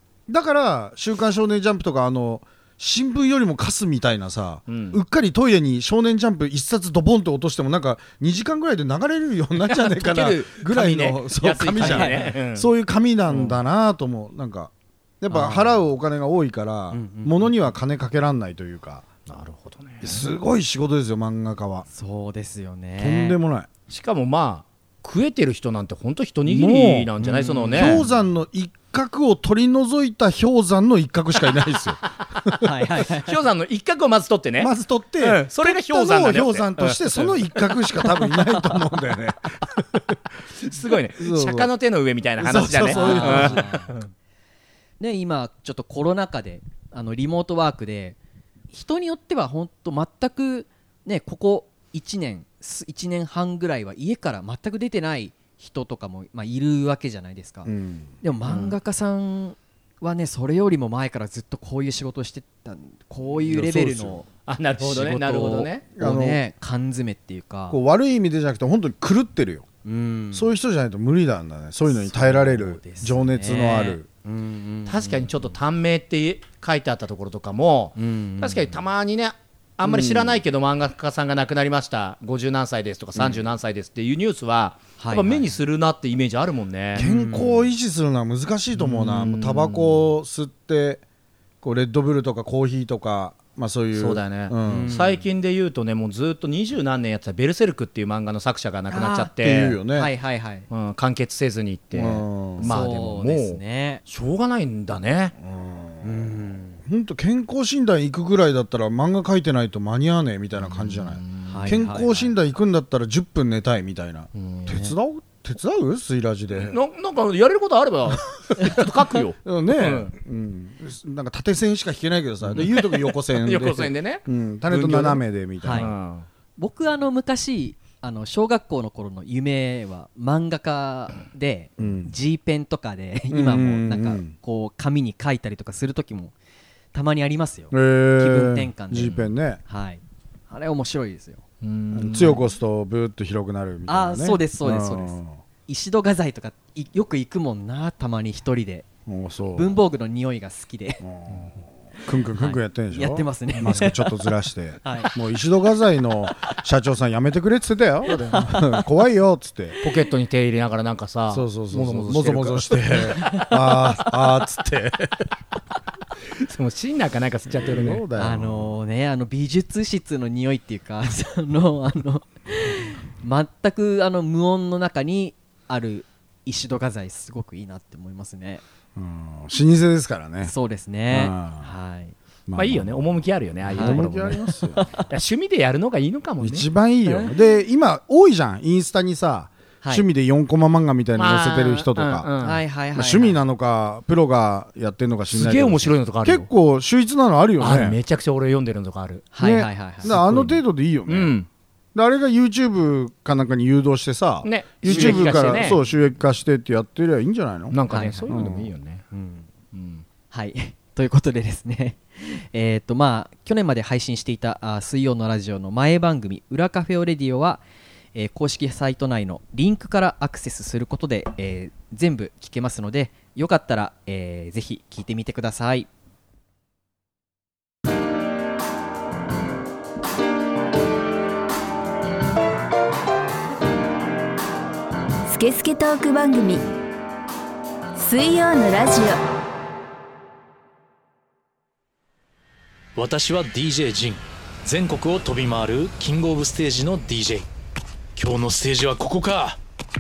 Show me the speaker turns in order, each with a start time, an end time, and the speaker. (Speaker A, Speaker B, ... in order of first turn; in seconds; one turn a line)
Speaker A: 0.3-19.0
Speaker B: 4.7-5.0
Speaker B: 9.6-12.7
Speaker C: 11.8-12.4
Speaker B: 13.3-13.6
Speaker C: 15.3-15.8
Speaker C: 16.9-17.6
Speaker B: 19.3-20.2
Speaker A: 20.0-21.9
Speaker C: 21.9-23.4
Speaker A: 23.0-23.7
Speaker B: 23.9-28.1
Speaker A: 26.5-32.5
Speaker C: 27.6-28.1
Speaker B: 32.4-37.6
Speaker C: 32.6-33.4
Speaker A: 34.6-40.0
Speaker B: 40.6-44.1
Speaker A: 41.2-41.7
Speaker A: 42.4-43.9
Speaker C: 42.8-43.9
Speaker C: 45.0-48.2
Speaker C: 48.7-57.7
Speaker A: 57.6-58.2
Speaker C: 58.2-64.3
Speaker B: 58.5-58.8
Speaker A: 63.4-64.2
Speaker B: 64.5-65.8
Speaker C: 64.8-67.8
Speaker A: 66.0-66.4
Speaker A: 67.7-69.7
Speaker C: 69.8-70.5
Speaker A: 70.3-74.1
Speaker C: 71.9-75.5
Speaker B: 74.9-87.1
Speaker C: 78.0-78.8
Speaker A: 79.8-80.4
Speaker A: 83.2-83.5
Speaker C: 85.0-85.5
Speaker A: 87.0-91.0
Speaker C: 87.0-87.6
Speaker B: 88.8-90.1
Speaker A: 91.6-95.0
Speaker B: 93.9-99.8
Speaker C: 94.7-95.2
Speaker C: 98.9-99.3
Speaker A: 99.4-100.1
Speaker C: 99.9-100.7
Speaker B: 100.7-105.3
Speaker A: 101.9-102.8
Speaker C: 102.6-104.0
Speaker A: 105.4-106.3
Speaker C: 106.0-106.8
Speaker A: 106.8-116.8
Speaker B: 110.6-112.3
Speaker C: 111.5-112.1
Speaker B: 114.3-114.9
Speaker B: 116.5-120.1
Speaker A: 119.4-125.9
Speaker B: 122.5-126.3
Speaker C: 125.6-125.9
Speaker C: 126.6-136.3
Speaker A: 131.8-132.1
Speaker A: 133.3-134.3
Speaker C: 136.9-141.4
Speaker A: 137.7-139.6
Speaker B: 141.6-142.4
Speaker A: 141.9-145.4
Speaker C: 143.9-148.9
Speaker A: 149.1-149.8
Speaker C: 149.6-151.0
Speaker A: 151.0-159.8
Speaker C: 152.3-154.3
Speaker C: 154.8-155.1
Speaker C: 158.1-158.8
Speaker B: 159.8-163.1
Speaker A: 161.3-165.2
Speaker C: 163.2-163.5
Speaker B: 166.4-168.0
Speaker A: 167.6-168.8
Speaker C: 168.2-178.6
Speaker A: 179.0-180.5
Speaker C: 180.4-182.2
Speaker A: 181.1-181.7
Speaker A: 182.5-184.9
Speaker B: 182.5-184.4
Speaker C: 183.7-184.1
Speaker C: 184.7-185.1
Speaker B: 185.1-186.7
Speaker A: 186.4-192.3
Speaker B: 191.2-192.6
Speaker C: 192.4-193.4
Speaker A: 192.9-198.0
Speaker B: 195.3-196.5
Speaker B: 197.6-199.3
Speaker C: 199.3-200.1
Speaker A: 199.4-201.3
Speaker B: 200.0-201.5
Speaker A: 201.9-207.8
Speaker B: 204.4-205.8
Speaker C: 204.8-205.9
Speaker B: 207.7-209.1
Speaker C: 207.9-208.3
Speaker A: 208.3-208.7
Speaker C: 209.1-209.5
Speaker B: 209.7-210.1
Speaker C: 210.3-217.6
Speaker C: 218.2-225.9
Speaker D: 235.3-236.6
Speaker D: 238.0-239.2
Speaker E: 242.9-247.5
Speaker E: 248.2-249.6